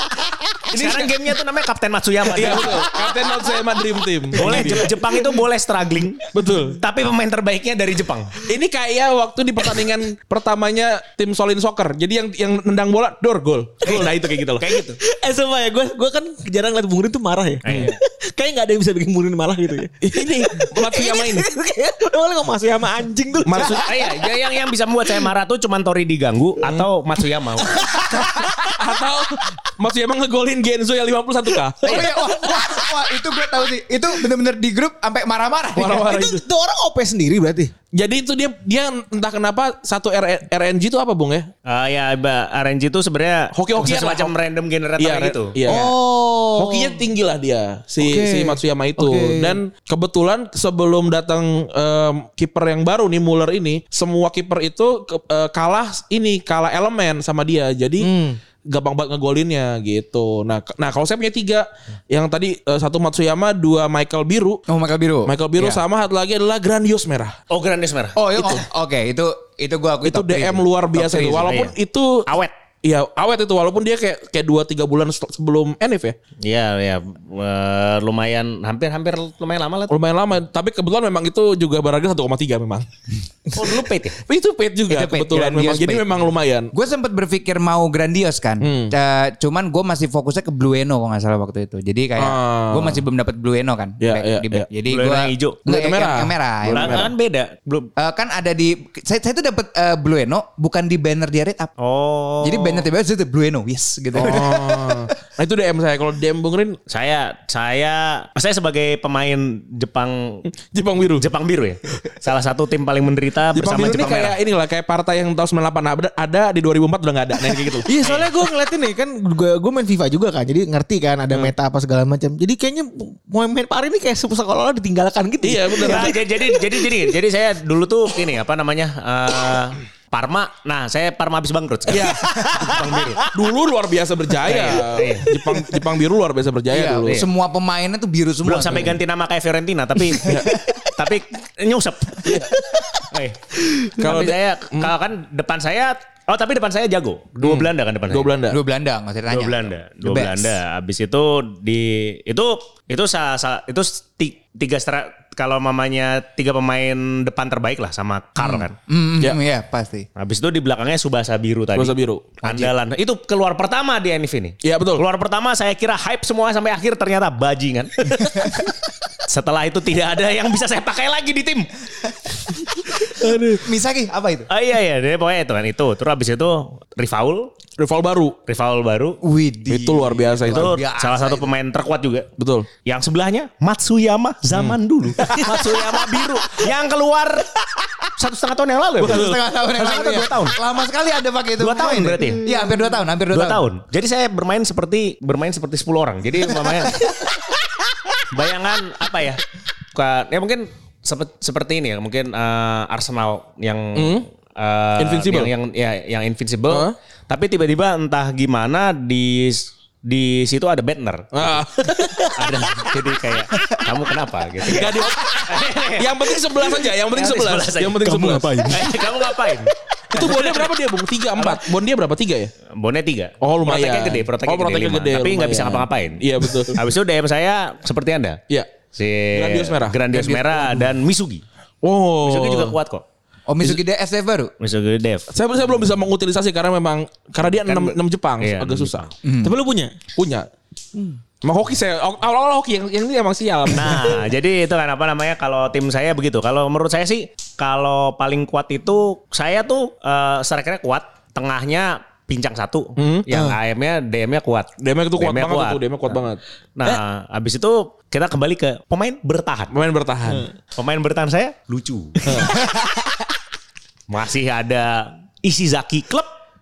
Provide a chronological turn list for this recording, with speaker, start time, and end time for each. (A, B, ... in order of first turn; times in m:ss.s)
0:00.7-0:02.9 A
0:00.7-0:01.1 B
0:02.3-0:04.9 B
0:04.3-0:08.3 A
0:04.4-0:05.3 C
0:06.3-0:06.8 B
0:08.5-0:14.7 B
0:14.6-0:15.0 A
0:15.2-0:24.1 C
0:17.6-0:17.9 A
0:20.0-0:21.5 B
0:23.4-0:23.9 B
0:23.7-0:27.8 A
0:27.6-0:29.0 C
0:28.1-0:32.0 B
0:31.8-0:33.6 C
0:31.8-0:36.1 D
0:35.8-0:36.4 B
0:35.8-0:37.7 C
0:37.9-0:41.5 B
0:41.6-0:45.5 A
0:43.5-0:44.3 B
0:45.0-0:45.9 B
0:45.7-0:47.0 C
0:46.5-0:58.1 B
0:48.0-0:49.6 C
0:58.0-0:58.4 C
0:58.7-1:04.6 B
1:04.7-1:05.8 D
1:05.2-1:07.4 B
1:07.5-1:08.2 A
1:08.2-1:11.6 D
1:10.0-1:12.2 B
1:11.4-1:11.7 A
1:12.3-1:12.5 A
1:12.8-1:16.1 B
1:16.4-1:19.9 A
1:19.9-1:22.9 B
1:23.5-1:24.2 A
1:24.2-1:26.7 B
1:24.9-1:26.2 D
1:26.7-1:37.1 D
1:28.6-1:28.9 B
1:32.2-1:33.0 B
1:34.0-1:34.6 B
1:34.9-1:35.6 A
1:35.7-1:37.1 B
1:36.7-1:37.9 A
1:38.0-1:41.7 D
1:41.8-1:42.8 A
1:42.4-1:45.1 D
1:44.1-1:46.8 B
1:46.9-1:50.4 A
1:50.7-1:51.3 B
1:51.2-1:54.3 A
1:53.5-1:57.9 B
1:53.8-1:54.3 D
1:57.8-2:07.1 C
1:58.0-1:58.3 A
2:05.4-2:06.1 B
2:05.8-2:13.2 A
2:11.9-2:17.2 B
2:12.2-2:13.3 C
2:14.4-2:15.3 A
2:15.5-2:15.8 C
2:16.7-2:19.0 D
2:18.4-2:22.4 A
2:20.2-2:20.6 D
2:20.2-2:20.5 B
2:22.2-2:22.5 B
2:23.1-2:23.4 A
2:23.9-2:28.3 A
2:24.0-2:24.9 B
2:27.4-2:28.6 B
2:28.5-2:30.6 D
2:29.3-2:38.8 A
2:38.4-2:40.0 D
2:40.2-2:51.7 A
2:41.7-2:42.4 B
2:42.4-2:42.7 D
2:44.6-2:45.0 B
2:48.2-2:48.7 D
2:53.6-2:54.5 D
2:54.5-2:57.5 A
2:57.8-2:58.4 B
2:58.5-2:59.2 A
2:59.2-3:01.5 D
2:59.7-3:00.7 B
3:00.5-3:02.3 A
3:02.4-3:02.7 B
3:02.8-3:07.5 A
3:04.5-3:05.6 B
3:08.2-3:10.6 A
3:09.0-3:13.6 D
3:09.0-3:09.4 B
3:11.6-3:12.4 A
3:13.3-3:17.0 A
3:16.7-3:17.5 D
3:18.3-3:19.4 A
3:19.9-3:31.5 A
3:24.0-3:24.2 B
3:25.0-3:25.5 B
3:31.3-3:32.3 B
3:32.3-3:36.4 A
3:34.7-3:38.8 B
3:37.1-3:40.7 A
3:38.0-3:39.1 C
3:40.1-3:42.5 B
3:42.7-3:48.4 A
3:43.4-3:46.8 B
3:48.9-3:51.4 A
3:49.3-3:50.0 B
3:50.1-3:50.9 D
3:51.8-3:52.8 B
3:52.2-3:53.0 A
3:53.5-3:54.5 D
3:54.6-3:55.3 A
3:55.3-3:59.0 B
3:57.4-3:59.1 A
3:59.2-3:59.5 D
3:59.4-4:00.0 C
4:00.1-4:00.5 B
4:01.4-4:04.2 B
4:03.7-4:16.2 A
4:13.0-4:13.3 B
4:13.3-4:13.6 C
4:14.8-4:16.4 B
4:16.8-4:19.7 A
4:19.7-4:20.5 B
4:20.8-4:22.5 A
4:22.2-4:22.5 B
4:22.5-4:23.2 D
4:24.1-4:26.3 A